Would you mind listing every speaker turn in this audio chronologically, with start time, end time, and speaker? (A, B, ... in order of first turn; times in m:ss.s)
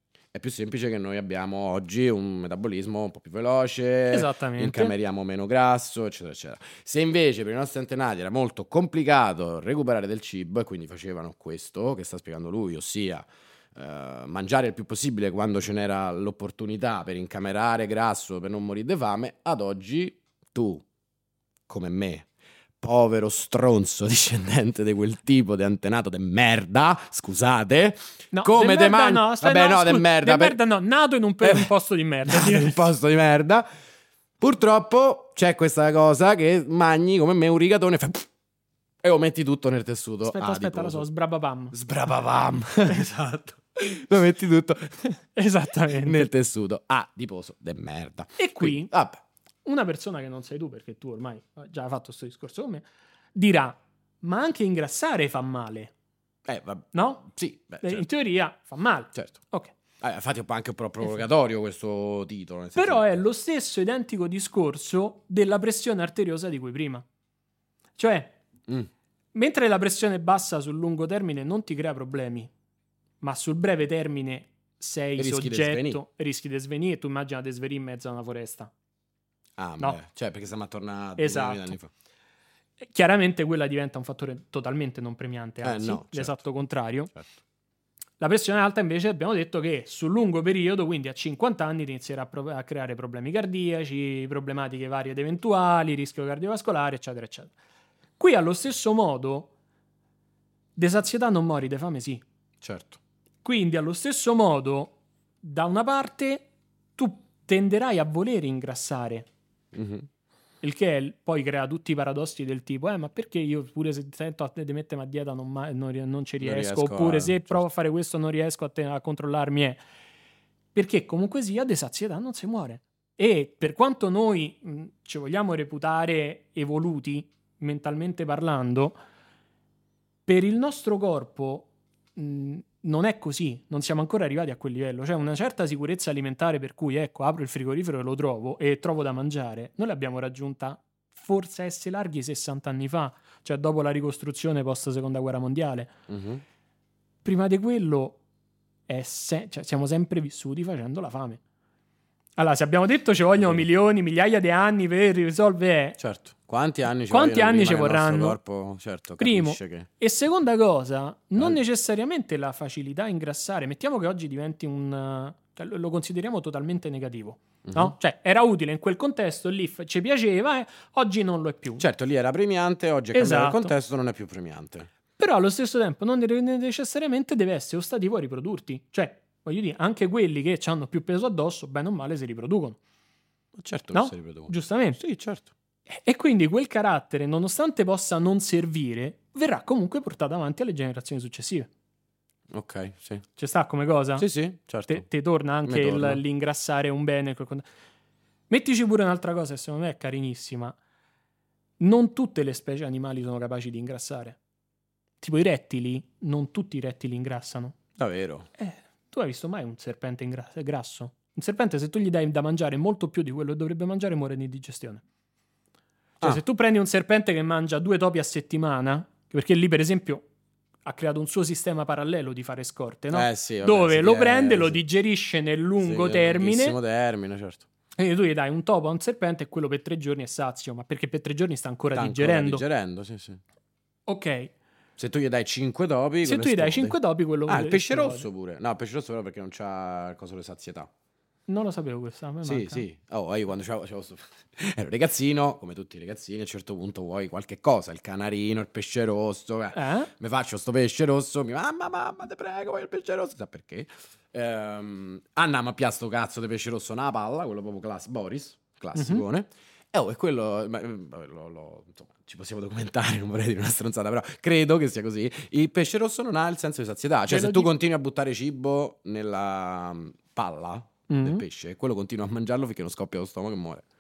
0:00.3-0:20.8 A
0:04.1-0:04.9 B
0:21.7-0:22.3 A
0:22.8-0:30.6 A
0:28.3-0:32.9 B
0:31.4-0:31.7 A
0:32.3-0:33.7 A
0:34.4-0:38.3 A
0:39.0-0:41.0 A
0:40.2-0:41.8 B
0:41.7-0:45.2 A
0:45.4-0:46.3 B
0:45.9-0:49.2 A
0:48.4-0:48.9 B
0:49.6-0:55.9 B
0:56.5-0:58.0 A
0:56.9-0:57.3 B
0:57.8-0:59.7 B
1:00.0-1:03.2 A
1:02.8-1:07.0 B
1:08.0-1:08.4 B
1:09.3-1:12.5 B
1:13.2-1:18.7 B
1:15.2-1:16.0 A
1:19.6-1:21.9 A
1:21.2-1:21.8 B
1:22.8-1:27.1 B
1:25.6-1:26.4 A
1:28.2-1:37.5 B
1:38.2-1:39.5 B
1:40.8-1:42.2 B
1:42.6-1:43.0 A
1:43.4-1:49.3 B
1:49.7-1:50.1 A
1:50.6-1:59.8 B
1:56.4-1:57.6 A
2:00.8-2:09.0 B
2:10.3-2:26.0 B
2:26.1-2:26.4 A
2:27.2-2:28.2 B
2:28.9-2:31.4 B
2:32.4-2:36.0 B
2:33.4-2:33.6 A
2:36.0-2:39.9 A
2:37.1-2:38.4 B
2:39.2-2:51.8 B
2:47.7-2:47.9 A
2:51.8-2:54.9 A
2:53.1-2:53.7 B
2:55.2-3:02.8 B
3:03.6-3:05.5 A
3:03.9-3:05.0 B
3:05.9-3:11.7 B
3:12.5-3:13.2 A
3:13.4-3:14.3 B
3:14.2-3:15.1 A
3:14.9-3:17.6 B
3:15.6-3:16.2 A
3:18.5-3:20.8 B
3:21.8-3:24.4 B
3:25.2-3:27.8 B
3:28.0-3:28.5 A
3:28.6-3:35.0 B
3:36.2-3:40.3 B
3:40.8-3:46.8 B
3:43.1-3:44.8 A
3:45.8-3:47.7 A
3:48.0-3:52.6 B
3:51.9-3:53.4 A
3:54.1-3:54.5 B
3:55.0-4:00.9 A
3:56.2-3:58.3 B
4:01.5-4:02.8 B
4:02.4-4:33.8 A
4:09.7-4:10.1 B
4:19.0-4:19.2 B
4:27.3-4:27.7 B
4:31.1-4:31.4 B